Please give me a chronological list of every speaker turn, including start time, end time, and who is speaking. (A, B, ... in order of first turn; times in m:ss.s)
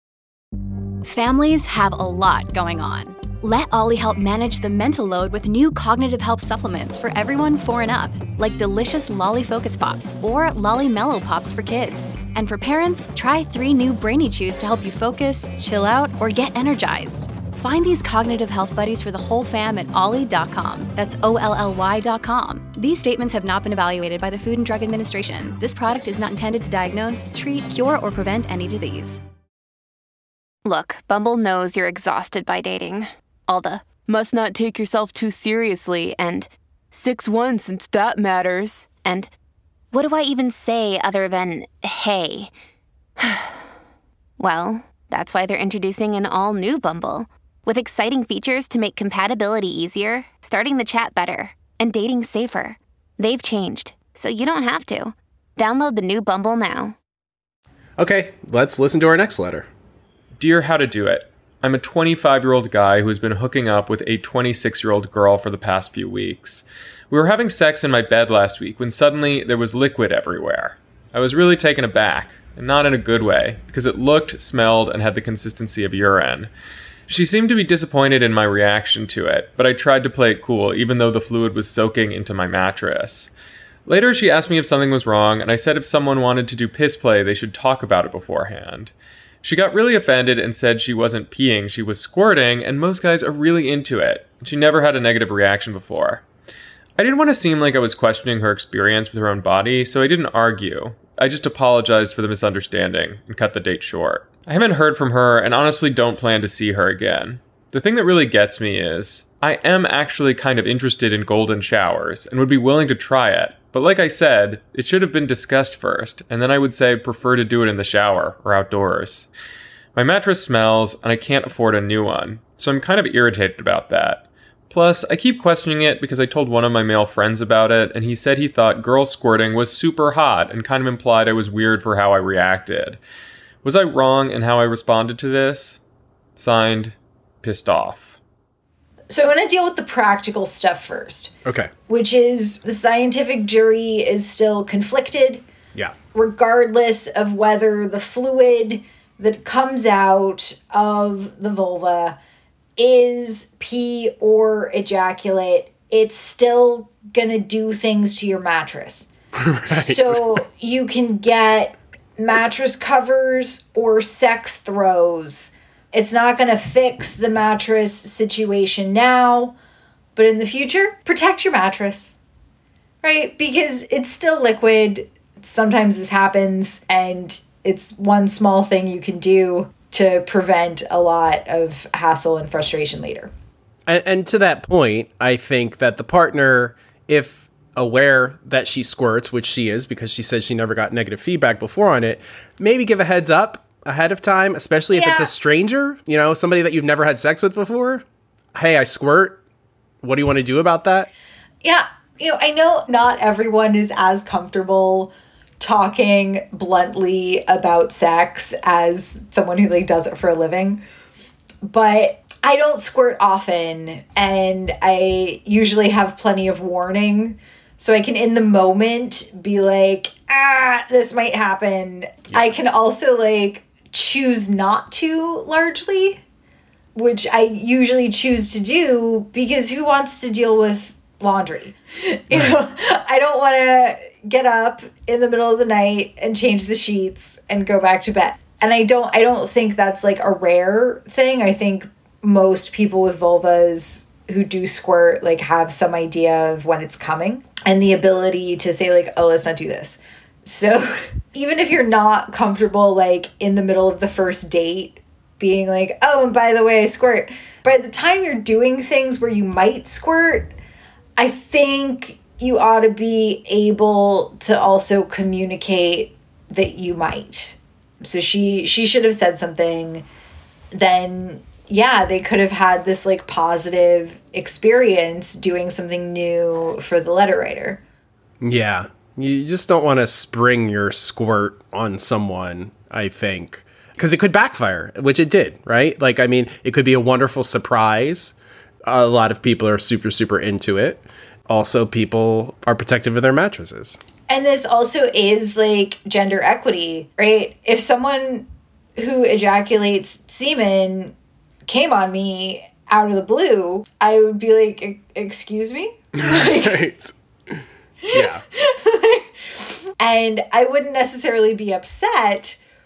0:01.0-0:29.2 A
0:30.6-0:39.3 B
0:39.9-0:42.5 B
0:43.2-0:43.5 B
0:44.4-0:57.0 B
0:58.0-0:59.7 C
1:00.4-1:16.5 D
1:17.1-1:23.3 D
1:23.8-1:36.2 D
1:37.0-1:59.3 D
1:59.9-2:13.0 D
2:13.6-2:15.8 D
2:16.4-2:18.2 D
2:19.1-2:21.3 E
2:21.4-2:21.7 C
2:21.9-2:25.4 E
2:26.1-2:32.2 E
2:32.8-2:39.1 E
2:39.4-2:40.4 C
2:39.7-2:49.5 E
2:50.2-2:52.2 E
2:53.0-3:03.3 E
3:03.9-3:18.0 C
3:14.9-3:15.3 E
3:18.5-3:19.4 C
3:20.0-3:21.1 C
3:21.6-3:30.8 E
3:31.6-3:46.2 E
3:46.9-4:20.5 E
4:21.2-4:30.1 E
4:30.7-4:37.8 E
4:38.4-4:48.3 C
4:48.8-4:54.0 C
4:54.3-5:01.1 E
5:01.7-5:06.8 E
5:06.2-5:08.4 C
5:08.2-5:09.2 E
5:10.0-5:12.6 E